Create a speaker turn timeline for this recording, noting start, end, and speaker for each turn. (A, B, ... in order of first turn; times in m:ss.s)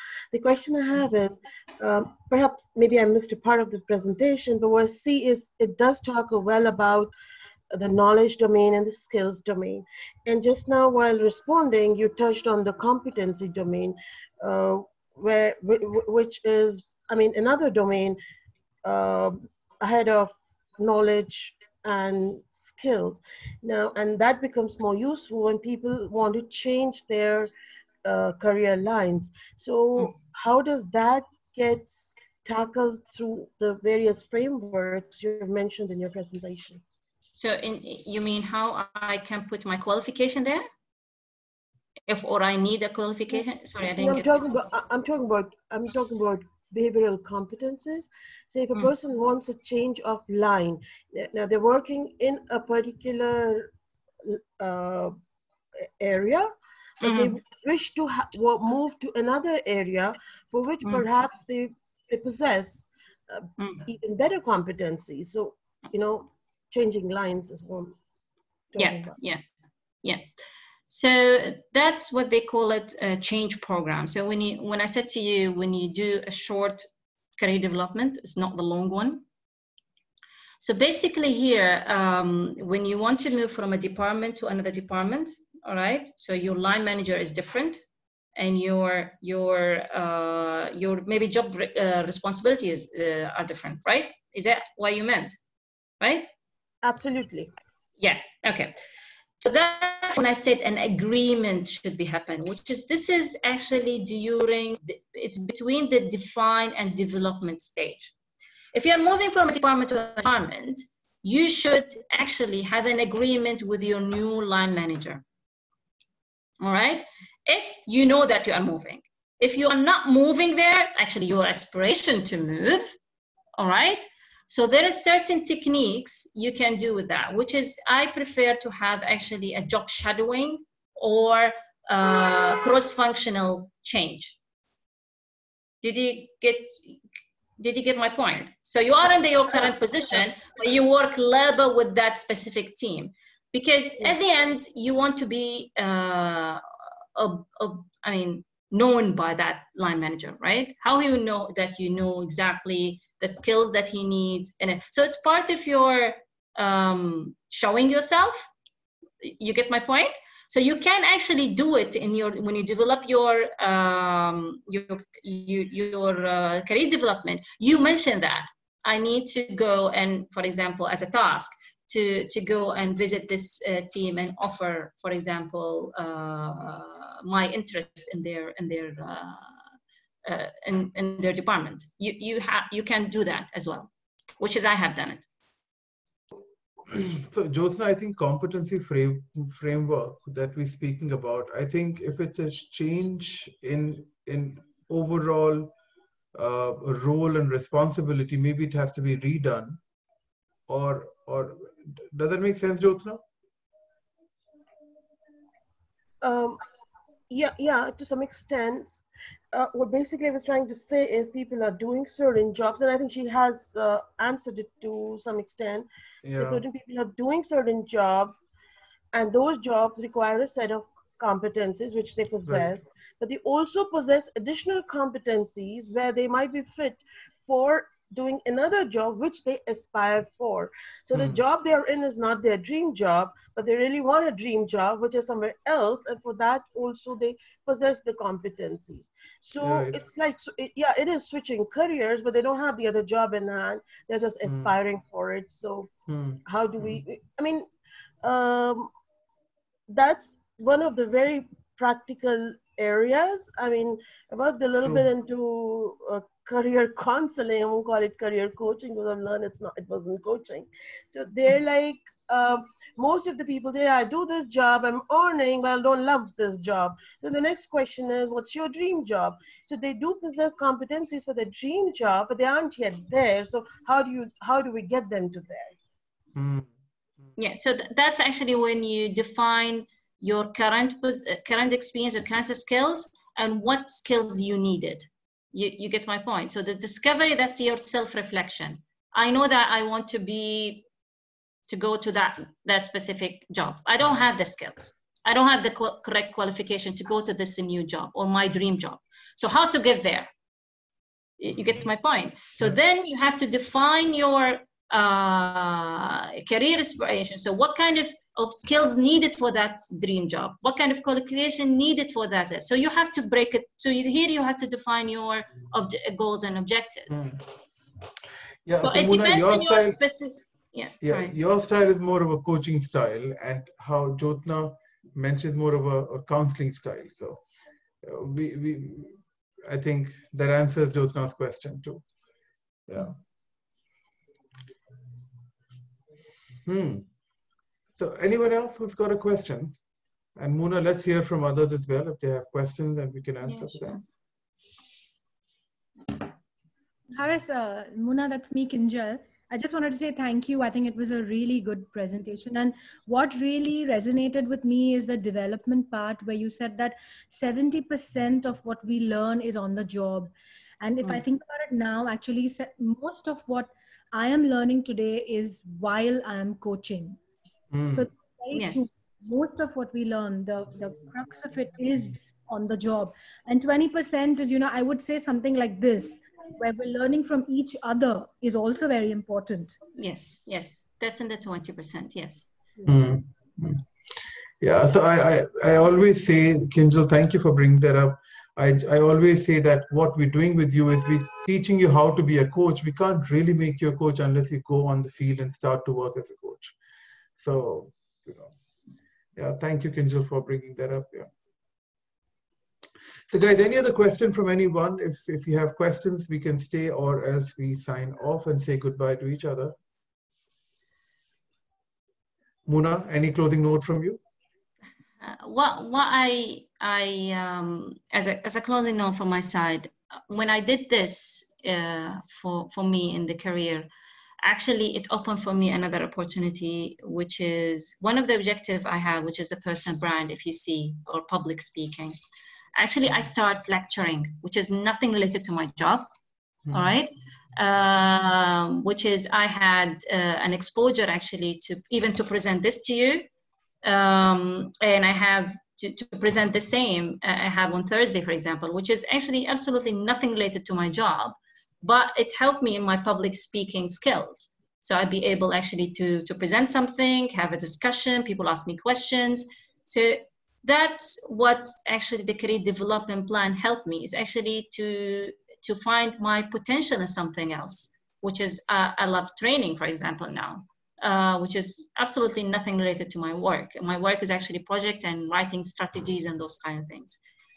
0:00.3-0:07.1 A
0:07.7-0:18.2 A
0:18.8-0:27.5 A
0:28.0-0:36.8 A
0:37.3-0:40.7 B
0:42.1-0:44.4 B
0:44.0-0:53.7 A
0:54.2-0:55.2 A
0:56.0-1:08.0 A
0:57.0-0:57.4 B
1:03.6-1:03.8 B
1:08.7-1:09.2 A
1:08.8-1:09.4 B
1:10.9-1:16.8 B
1:17.4-1:19.2 B
1:20.6-1:27.8 B
1:28.4-1:35.4 B
1:36.0-1:36.3 B
1:36.8-1:37.5 A
1:38.0-1:38.8 B
1:39.4-1:48.1 B
1:48.7-1:55.2 B
1:56.6-2:03.0 B
2:03.6-2:14.4 B
2:15.8-2:17.0 B
2:17.6-2:26.6 B
2:27.2-2:38.5 B
2:39.2-2:59.6 B
3:00.2-3:05.2 B
3:06.8-3:15.7 C
3:16.3-3:19.8 C
3:20.7-3:23.2 C
3:26.2-3:26.6 A
3:27.3-3:35.9 A
3:36.2-3:36.6 C
3:36.4-3:38.4 A
3:39.1-4:05.9 A
3:42.5-3:42.8 C
3:51.1-3:51.4 C
3:59.6-4:00.0 C
4:04.4-4:04.8 C
4:06.1-4:07.0 C
4:06.5-4:07.6 A
4:08.2-4:08.9 A
4:09.9-4:35.7 A
4:14.8-4:15.1 C
4:36.4-4:36.7 C
4:37.4-4:50.9 B
4:51.7-5:00.3 B
5:01.4-5:17.2 B
5:17.1-5:17.4 C
5:18.6-5:20.0 C
5:18.8-5:21.4 B
5:21.0-5:27.4 C
5:28.0-5:32.0 C
5:32.9-5:33.2 C
5:36.6-5:37.1 C
5:37.9-5:39.8 C
5:40.4-5:44.0 C
5:43.4-5:44.0 B
5:47.1-6:07.2 D
6:07.7-6:08.1 C
6:07.9-6:19.8 D
6:08.5-6:08.9 B
6:20.0-6:22.5 B
6:22.8-6:23.8 C
6:24.6-6:36.8 C
6:37.4-6:38.5 C
6:39.4-6:41.3 C
6:43.3-6:49.8 C
6:52.7-6:54.2 C
6:55.2-7:03.9 B
7:04.4-7:12.2 B
7:12.8-7:16.1 B
7:16.7-7:23.3 B
7:23.8-7:57.2 B